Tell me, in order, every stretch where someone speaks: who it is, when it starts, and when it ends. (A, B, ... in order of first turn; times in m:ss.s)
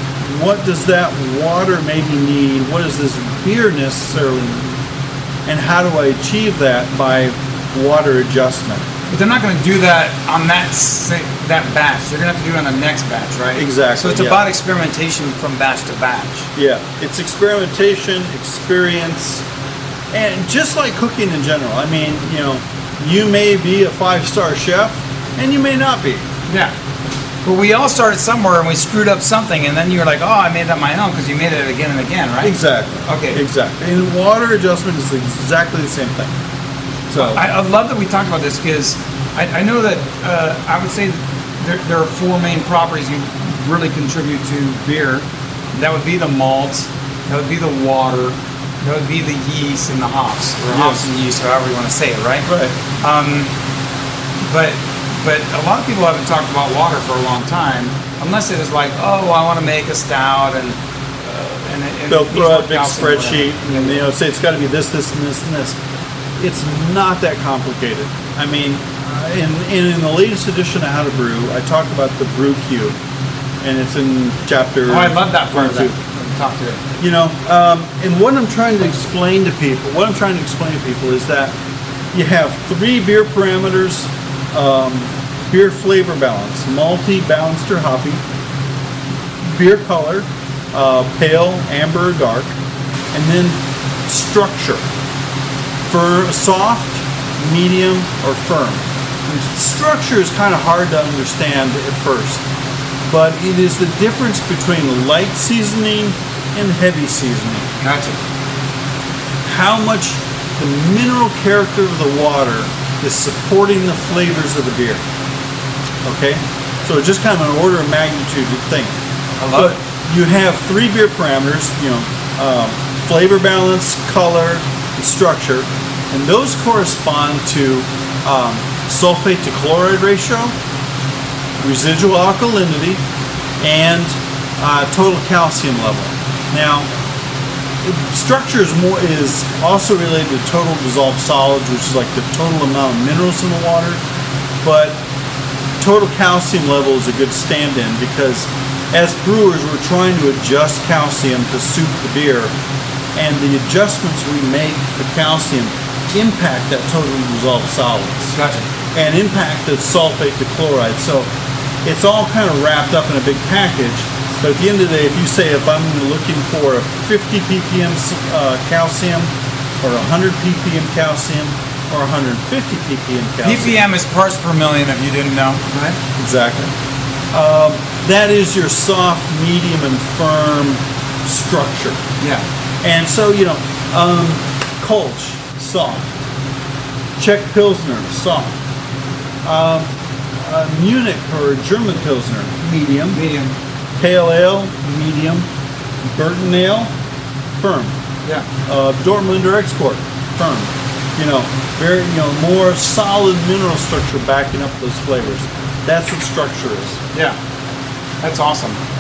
0:00.2-0:04.8 A
0:05.5-0:08.9 A
0:09.1-0:16.5 B
0:13.6-0:14.4 A
0:16.6-0:19.4 A
0:20.1-0:26.3 A
0:26.5-0:26.7 B
0:27.4-0:33.4 B
0:32.4-0:36.3 A
0:37.1-0:37.4 A
0:37.2-0:53.5 B
0:50.7-0:51.1 A
0:52.5-0:52.8 A
0:54.4-1:04.0 B
1:02.1-1:05.8 A
1:06.4-1:13.0 A
1:13.6-1:15.9 A
1:14.9-1:16.8 B
1:17.0-1:21.6 A
1:22.1-1:28.2 A
1:29.4-1:32.6 A
1:33.1-1:34.8 A
1:35.9-1:42.4 A
1:43.1-1:47.7 A
1:47.8-1:48.2 B
1:49.4-1:55.0 A
1:56.0-1:59.0 A
1:59.4-1:59.8 B
1:59.5-2:10.6 A
2:11.6-2:13.0 A
2:13.6-2:16.9 A
2:17.8-2:24.0 A
2:24.6-2:25.0 A
2:25.8-2:32.5 A
2:33.2-2:38.4 A
2:38.4-2:38.7 B
2:38.9-2:41.3 A
2:41.8-2:53.9 A
2:53.4-2:56.0 B
2:56.2-2:56.7 A
2:57.3-3:02.0 A
3:02.2-3:02.5 B
3:02.8-3:06.2 A
3:07.2-3:08.6 A
3:09.4-3:13.2 A
3:13.1-3:13.6 B
3:14.0-3:15.5 A
3:16.0-3:16.9 A
3:17.6-3:18.0 A
3:18.7-3:27.0 A
3:27.1-3:27.4 B
3:28.2-3:28.8 B